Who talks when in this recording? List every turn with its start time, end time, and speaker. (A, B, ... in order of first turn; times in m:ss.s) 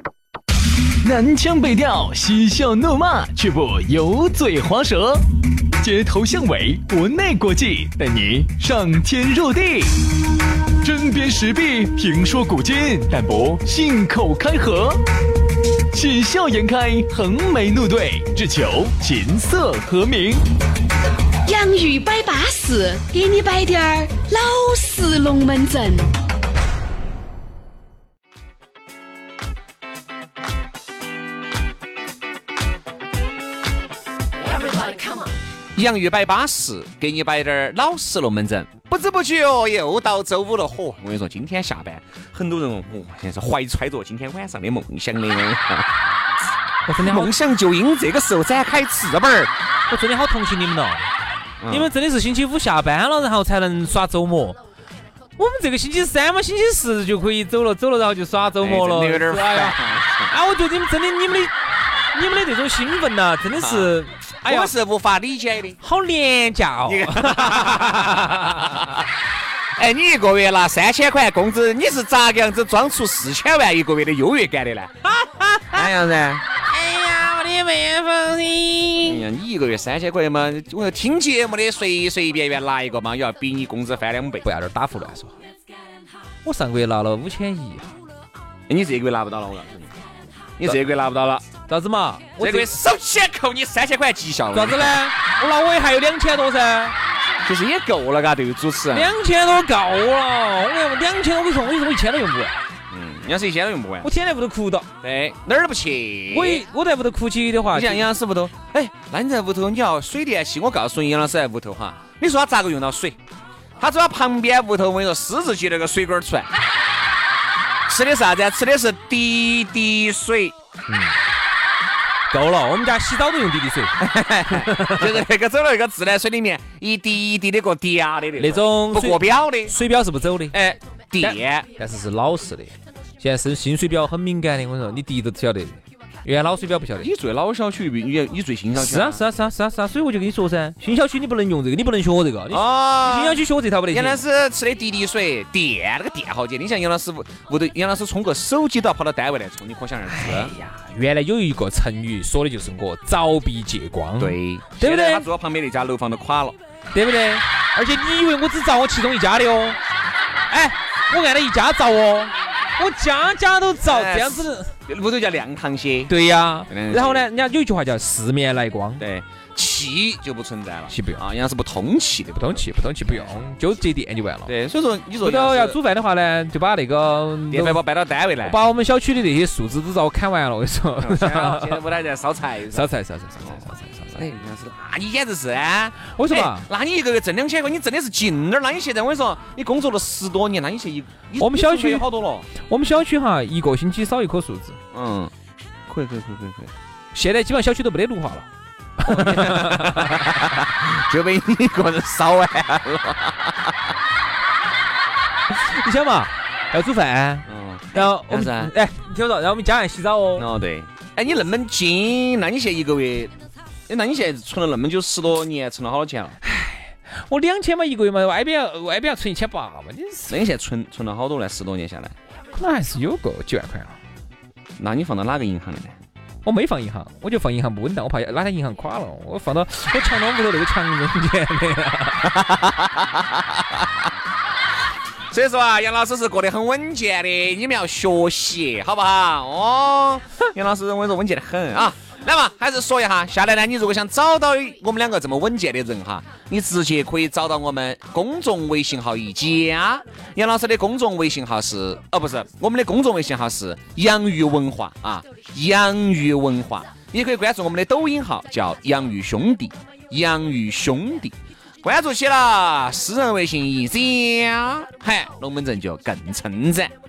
0:01.0-0:05.2 A
0:05.8-0:10.0 A
0:10.8-0:15.0 A
0:15.9-0:20.4 A
0:21.4-0:26.1 B
0:35.7-0:46.0 C
0:46.8-0:47.3 D
0:47.0-0:49.5 C
0:49.9-0:51.1 D
0:51.6-0:51.9 C
0:51.7-0:54.6 D
0:55.4-1:01.5 D
0:58.6-1:00.3 C
1:02.1-1:04.7 D
1:03.6-1:05.8 C
1:05.8-1:08.9 D
1:06.8-1:09.0 C
1:09.7-1:15.0 C
1:15.0-1:15.9 D
1:15.7-1:16.4 C
1:16.6-1:19.2 D
1:19.0-1:24.5 C
1:24.4-1:25.3 D
1:26.4-1:27.9 D
1:28.7-1:29.9 C
1:30.6-1:31.4 C
1:31.7-1:32.8 D
1:32.4-1:35.0 C
1:34.5-1:36.9 D
1:37.4-1:39.1 C
1:38.9-1:42.6 D
1:42.9-1:44.1 C
1:44.0-1:44.9 D
1:45.0-1:46.6 C
1:46.3-1:48.1 D
1:47.7-1:53.2 C
1:53.8-1:56.6 C
1:57.9-2:00.6 C
2:00.9-2:01.2 D
2:02.3-2:05.2 D
2:04.0-2:09.8 C
2:08.4-2:10.6 D
2:10.5-2:11.7 C
2:11.2-2:17.1 D
2:17.0-2:19.2 C
2:18.8-2:24.2 D
2:22.5-2:30.5 C
2:30.1-2:35.3 D
2:34.2-2:36.6 C
2:36.9-2:39.8 D
2:40.5-2:44.7 D
2:43.8-2:46.1 C
2:46.1-2:49.0 D
2:46.7-2:47.3 C
2:49.0-2:53.4 C
2:50.9-2:51.2 D
2:52.3-2:54.5 D
2:54.5-2:55.8 C
2:55.2-2:57.8 D
2:57.5-2:58.6 C
2:58.4-3:01.8 D
3:01.0-3:02.9 C
3:02.7-3:04.2 D
3:03.4-3:12.5 C
3:06.1-3:06.7 D
3:11.4-3:14.8 D
3:14.9-3:15.3 C
3:15.9-3:16.7 C
3:17.1-3:20.5 D
3:19.0-3:23.9 C
3:25.5-3:30.5 D
3:27.5-3:28.7 C
3:30.4-3:33.3 C
3:33.9-3:36.4 C
3:36.4-3:40.4 D
3:40.3-3:42.1 C
3:42.5-3:44.0 D
3:44.8-3:46.0 C
3:46.4-3:52.3 D
3:52.2-3:54.0 C
3:55.3-4:26.9 C